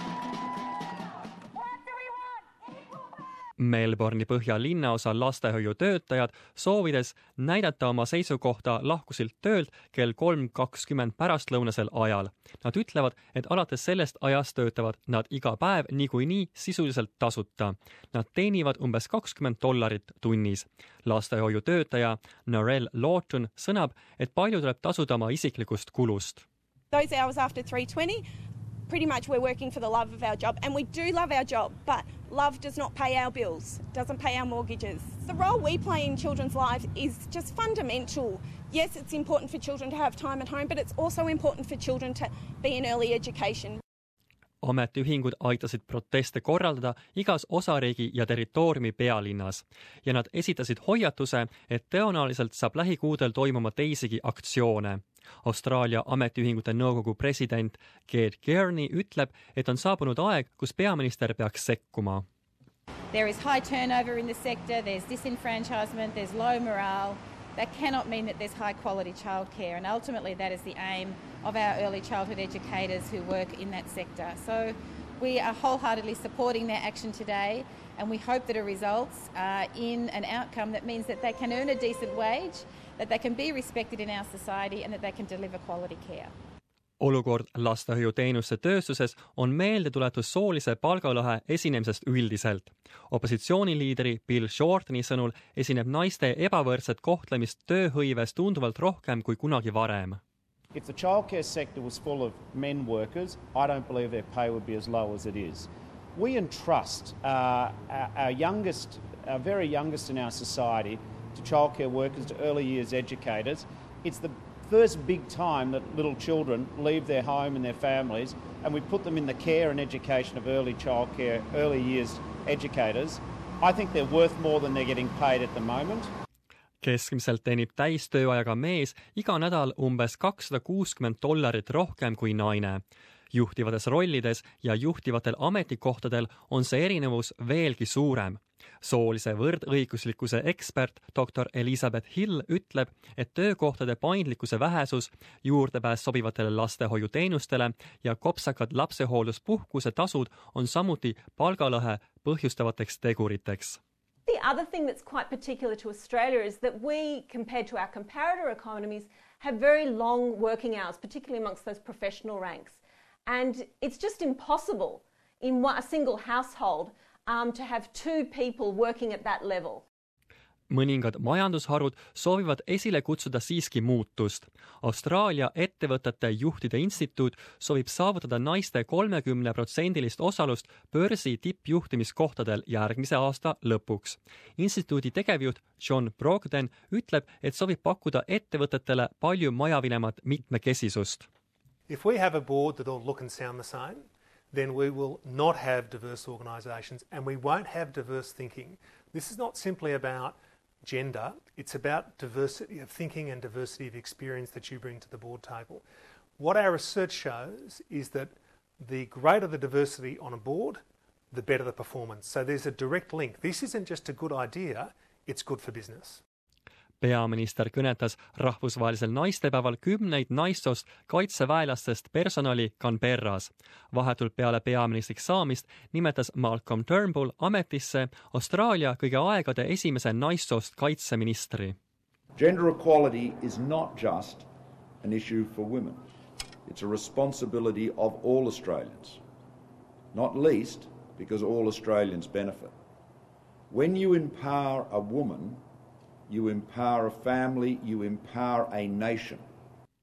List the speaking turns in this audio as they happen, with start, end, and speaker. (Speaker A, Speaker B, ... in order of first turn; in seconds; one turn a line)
Speaker A: 3.6-26.4
Speaker B: 26.9-28.2
Speaker B: 28.9-43.8
Speaker A: 44.6-62.2
Speaker C: 63.1-86.3
Speaker A: 87.0-100.2
Speaker D: 100.7-126.1
Speaker A: 126.8-153.8
Speaker E: 154.3-169.8
Speaker A: 170.7-191.3
Speaker F: 191.9-205.8
Speaker F: 206.4-216.2
Speaker A: 217.0-231.8
Speaker G: 232.3-234.5
Speaker G: 235.0-236.0
Speaker G: 236.7-239.2
Speaker G: 240.1-242.7
Speaker G: 243.7-245.6
Speaker G: 246.3-249.4